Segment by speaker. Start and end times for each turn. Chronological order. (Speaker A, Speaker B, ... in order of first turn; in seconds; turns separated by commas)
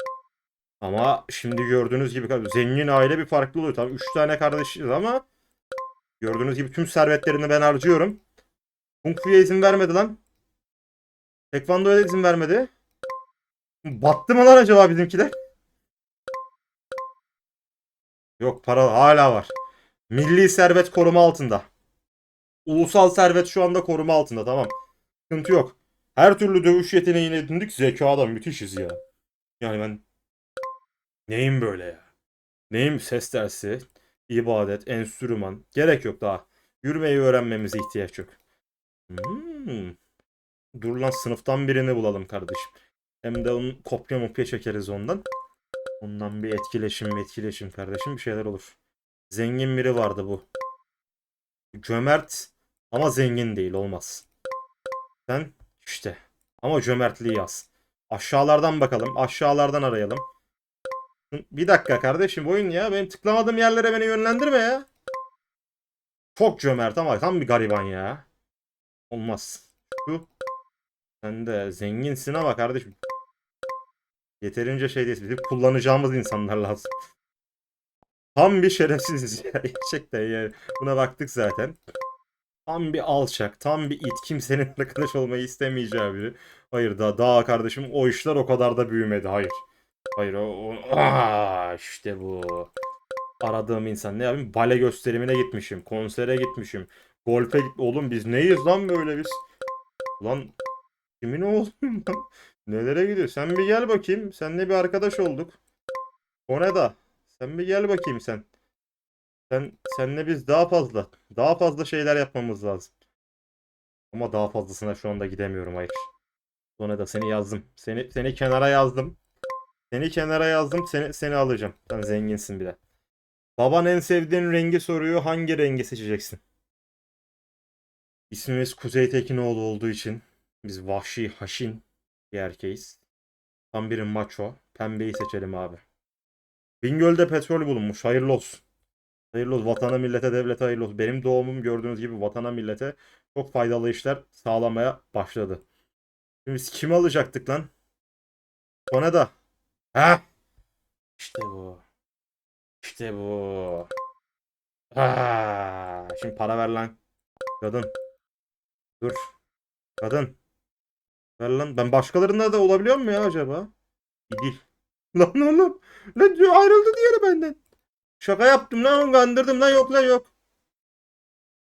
Speaker A: 0.8-5.2, Speaker A: 6.2-8.2, Speaker A: 9.0-10.2, Speaker A: 11.5-12.7, Speaker A: 13.8-15.4, Speaker A: 18.4-19.5, Speaker A: 20.1-21.7, Speaker A: 22.6-24.7, Speaker A: 25.3-29.0, Speaker A: 29.6-30.0, Speaker A: 31.3-32.0, Speaker A: 32.7-38.4, Speaker A: 39.1-40.0, Speaker A: 40.7-45.2, Speaker A: 46.0-48.8, Speaker A: 49.3-50.4, Speaker A: 51.7-54.2, Speaker A: 55.3-60.2, Speaker A: 61.3-64.9, Speaker A: 66.3-68.2, Speaker A: 69.1-70.3, Speaker A: 71.2-72.9, Speaker A: 74.4-76.9, Speaker A: 78.3-81.8, Speaker A: 82.7-89.6, Speaker A: 90.2-92.7, Speaker A: 93.4-99.4, Speaker A: 100.2-100.5, Speaker A: 101.2-105.6, Speaker A: 106.5-108.4, Speaker A: 109.5-112.9, Speaker A: 114.1-116.1, Speaker A: 116.8-119.2, Speaker A: 119.9-122.8, Speaker A: 123.6-126.4, Speaker A: 128.3-133.0, Speaker A: 133.7-135.8, Speaker A: 136.8-138.6, Speaker A: 139.3-145.6, Speaker A: 146.4-147.7, Speaker A: 148.9-149.3, Speaker A: 149.9-150.2, Speaker A: 151.2-151.8, Speaker A: 152.8-153.9, Speaker A: 154.9-157.0, Speaker A: 157.6-157.9, Speaker A: 159.0-159.3, Speaker A: 160.0-160.3, Speaker A: 161.4-163.7, Speaker A: 164.3-164.6, Speaker A: 165.1-167.6, Speaker A: 168.2-170.3